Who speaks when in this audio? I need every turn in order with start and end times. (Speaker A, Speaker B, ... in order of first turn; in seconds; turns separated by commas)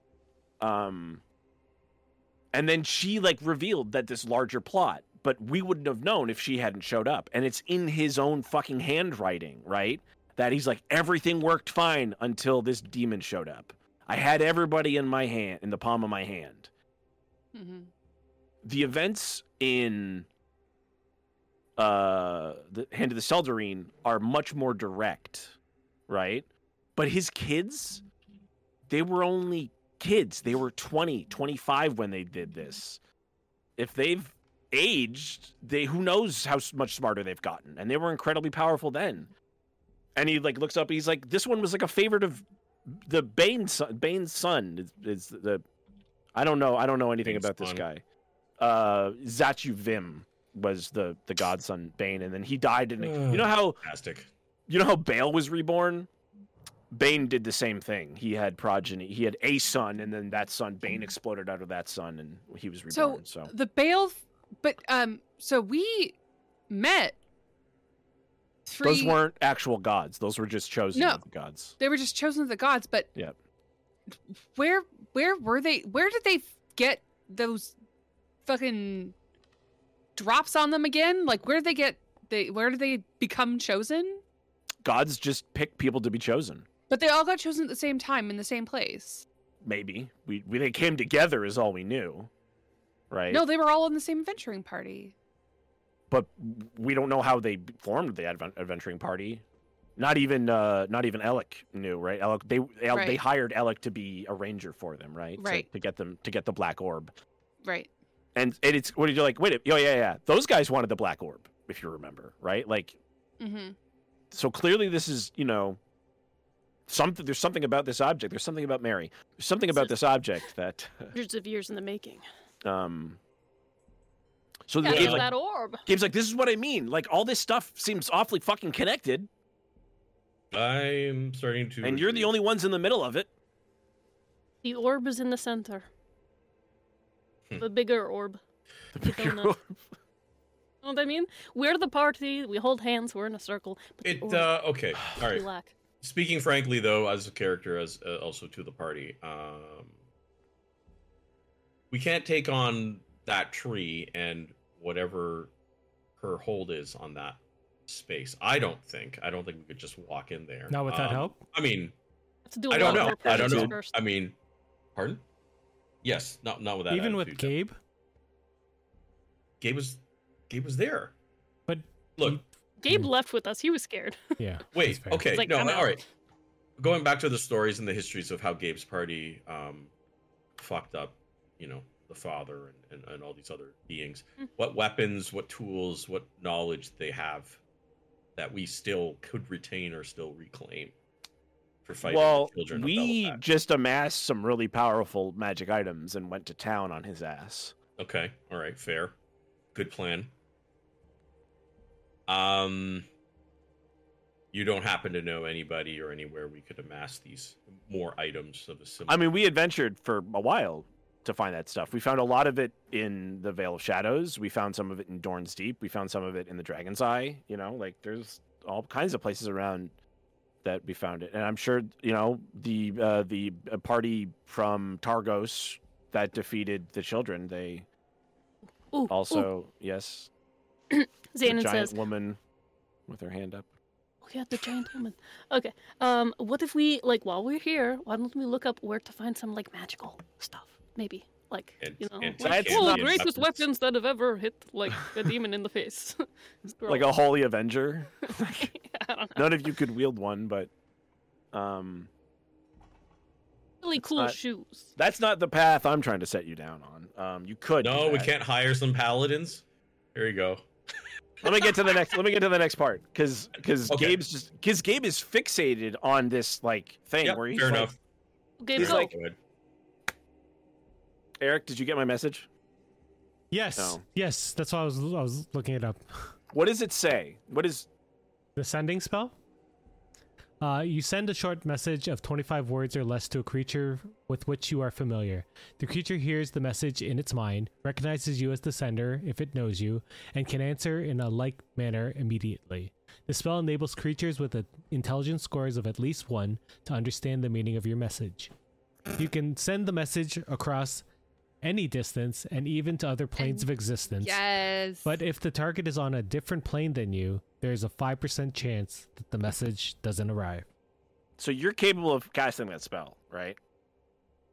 Speaker A: 0.6-1.2, Speaker A: 2.5-16.7, Speaker B: 17.5-17.9, Speaker A: 18.6-20.3, Speaker A: 21.8-25.6, Speaker A: 26.1-28.0, Speaker A: 28.9-33.0, Speaker A: 33.8-39.3, Speaker A: 40.2-45.6, Speaker A: 46.4-48.0, Speaker C: 47.2-47.9, Speaker A: 48.6-53.8, Speaker C: 53.0-54.3, Speaker A: 54.7-56.1, Speaker A: 56.9-63.5, Speaker B: 62.9-66.2, Speaker B: 66.7-67.2, Speaker B: 68.7-69.2, Speaker A: 68.8-71.8, Speaker B: 70.9-71.2, Speaker B: 71.8-73.1, Speaker B: 74.5-77.8, Speaker B: 78.5-79.2, Speaker B: 80.2-84.2, Speaker A: 84.8-86.7, Speaker B: 86.9-89.2, Speaker A: 89.6-92.3, Speaker A: 93.1-93.5, Speaker B: 93.3-95.1, Speaker A: 96.1-99.4, Speaker A: 100.0-107.1, Speaker B: 102.9-103.2, Speaker B: 105.4-105.7, Speaker B: 107.6-107.9, Speaker A: 108.3-113.0, Speaker B: 113.4-113.8, Speaker A: 114.3-115.8, Speaker A: 116.9-121.1, Speaker D: 121.1-122.2, Speaker A: 122.6-123.2, Speaker A: 124.7-125.3, Speaker D: 124.8-125.8, Speaker C: 124.9-125.3, Speaker A: 125.9-129.3, Speaker C: 130.5-132.3, Speaker A: 131.8-133.3, Speaker D: 134.6-135.9, Speaker D: 137.6-138.4, Speaker A: 138.9-139.8, Speaker D: 139.0-139.6, Speaker D: 140.8-144.5, Speaker C: 144.0-145.4, Speaker D: 145.2-145.8, Speaker C: 146.0-149.9, Speaker C: 151.9-155.5, Speaker C: 156.2-161.9, Speaker E: 160.7-161.4, Speaker D: 162.5-163.9, Speaker C: 162.7-164.4, Speaker A: 162.8-163.8, Speaker C: 165.0-165.2, Speaker C: 166.0-167.5, Speaker E: 166.9-167.8, Speaker C: 169.6-171.1, Speaker E: 171.7-173.1, Speaker D: 172.8-174.2, Speaker E: 174.4-175.3, Speaker C: 174.7-176.0, Speaker D: 175.3-176.0, Speaker C: 176.8-179.9, Speaker C: 180.6-187.6, Speaker C: 188.4-190.9, Speaker C: 191.9-193.4, Speaker A: 192.0-197.8, Speaker C: 198.0-199.2, Speaker C: 199.7-200.3, Speaker C: 202.3-203.1, Speaker C: 204.5-209.2, Speaker A: 209.1-219.9, Speaker A: 220.6-227.9, Speaker D: 228.9-229.5, Speaker A: 229.1-230.3, Speaker D: 230.9-232.0, Speaker A: 231.4-232.4, Speaker A: 233.1-233.7, Speaker D: 234.2-247.2, Speaker C: 241.8-243.7, Speaker A: 242.4-243.2, Speaker A: 246.9-248.7, Speaker D: 248.3-249.6, Speaker A: 249.4-250.7, Speaker A: 251.5-252.1, Speaker D: 253.8-254.9, Speaker A: 254.0-254.4, Speaker A: 255.0-258.3, Speaker C: 257.8-259.6, Speaker C: 260.1-260.6, Speaker A: 261.4-267.9, Speaker C: 263.9-264.2, Speaker C: 267.2-268.0, Speaker D: 268.6-269.1, Speaker C: 268.8-269.4, Speaker A: 268.8-269.1, Speaker A: 271.4-272.5, Speaker E: 273.5-276.0, Speaker A: 273.8-274.0, Speaker A: 276.5-277.9, Speaker E: 278.6-279.3, Speaker E: 280.6-298.5, Speaker E: 299.1-301.1, Speaker E: 301.6-304.4, Speaker B: 303.4-303.7, Speaker B: 304.2-305.2, Speaker E: 305.1-310.7, Speaker A: 311.4-313.6